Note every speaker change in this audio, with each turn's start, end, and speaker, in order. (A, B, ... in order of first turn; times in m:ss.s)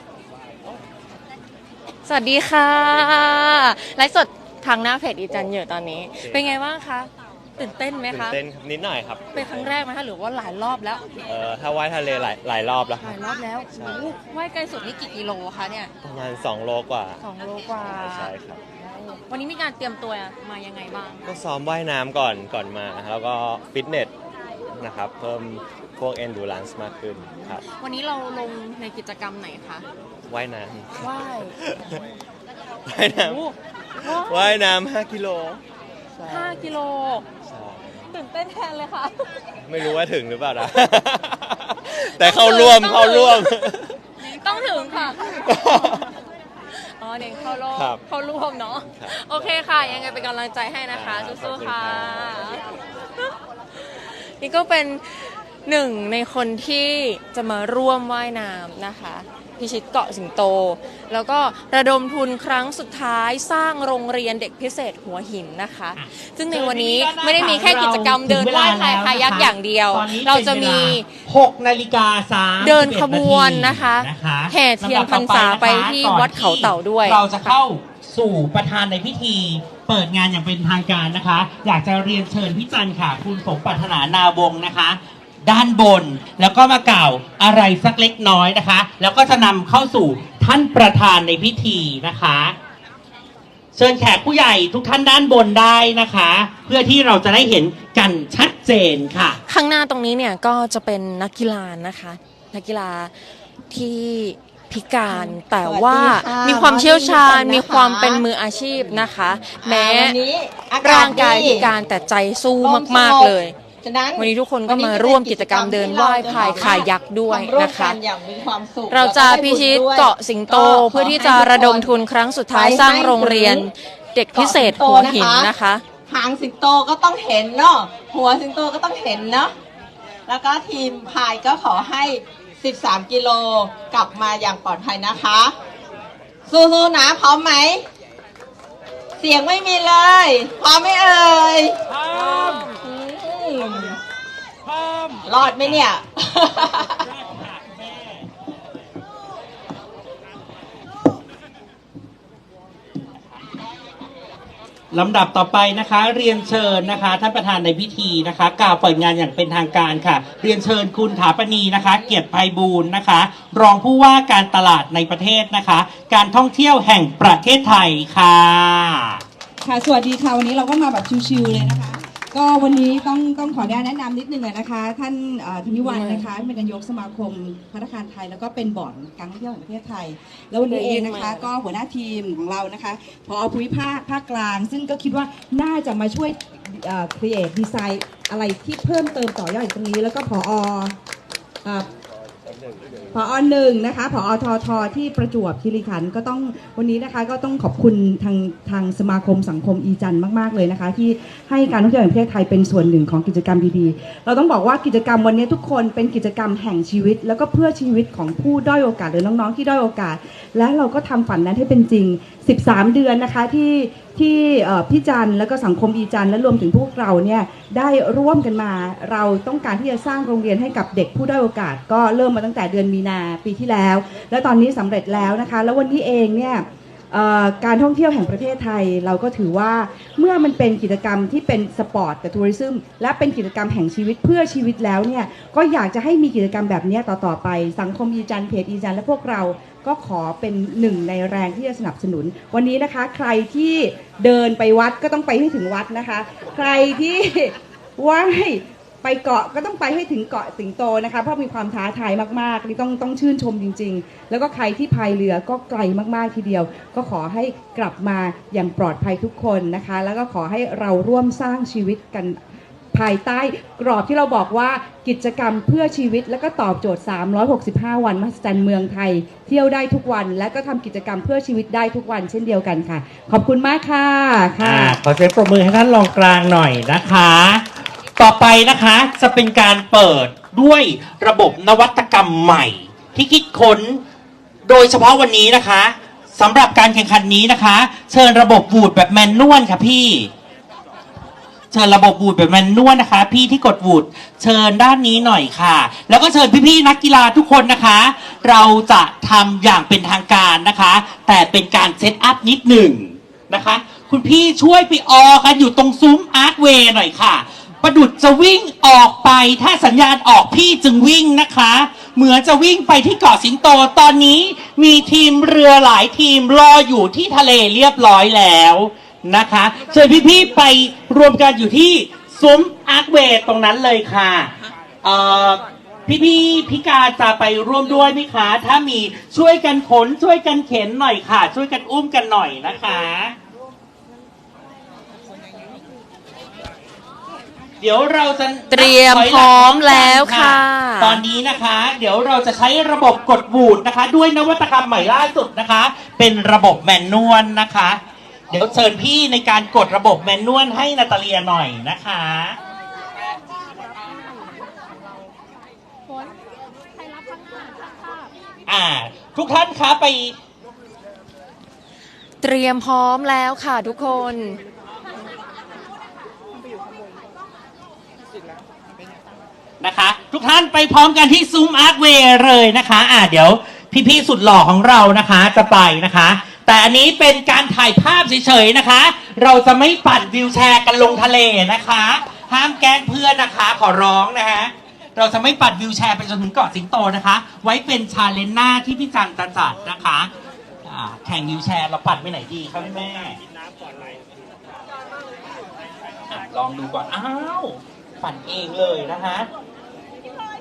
0:02.0-0:08.4 A
0:06.2-0:06.6 B
0:08.0-0:09.8 B
0:09.3-0:11.1 A
0:11.2-0:14.1 B
0:13.0-0:15.9 A
0:16.0-0:17.2 B
0:17.2-0:21.2 A
0:17.7-0:18.6 B
0:21.3-0:24.1 B
0:24.7-0:27.6 B
0:27.7-0:29.9 A
0:30.3-0:32.0 B
0:31.0-0:31.6 A
0:32.9-0:33.4 B
0:33.1-0:34.6 A
0:34.0-0:35.6 B
0:36.2-0:37.3 A
0:37.4-0:38.0 B
0:38.1-0:39.3 A
0:39.6-0:44.0 B
0:42.0-0:43.5 A
0:44.2-0:46.1 A
0:45.3-0:46.1 B
0:46.7-0:52.6 A
0:47.7-0:48.0 B
0:48.9-0:50.2 B
0:50.9-0:52.8 B
0:53.2-1:11.1 A
1:06.0-1:32.5 C
1:12.6-1:17.5 A
1:33.7-1:39.4 C
1:39.5-1:43.1 A
1:43.7-1:50.2 A
1:45.1-1:48.2 D
1:49.6-1:51.7 D
1:50.8-1:53.6 A
1:52.6-2:01.9 D
1:54.2-1:58.0 A
1:58.9-2:05.8 A
2:02.5-2:03.7 D
2:04.3-2:05.5 D
2:06.1-2:09.5 D
2:10.3-2:15.5 D
2:16.5-2:17.8 D
2:19.2-2:21.8 D
2:22.4-2:24.0 D
2:25.2-2:27.0 D
2:25.5-2:25.8 C
2:26.6-2:28.3 C
2:34.9-2:49.2 C
2:49.6-3:11.0 E
2:55.9-2:56.3 A
3:00.6-3:01.5 A
3:11.6-3:11.9 E
3:13.1-4:22.4 E
4:22.9-4:35.0 E
4:34.6-4:37.6 C
4:38.2-4:44.0 C
4:44.6-4:50.3 C
4:51.7-5:33.3 C
5:37.8-5:52.6 C
5:38.7-5:41.2 A
5:57.0-5:58.3 A
5:58.6-6:00.4 C
6:02.4-6:04.6 A
6:09.8-6:30.3 C
6:30.8-6:33.4 C
6:36.3-6:39.5 C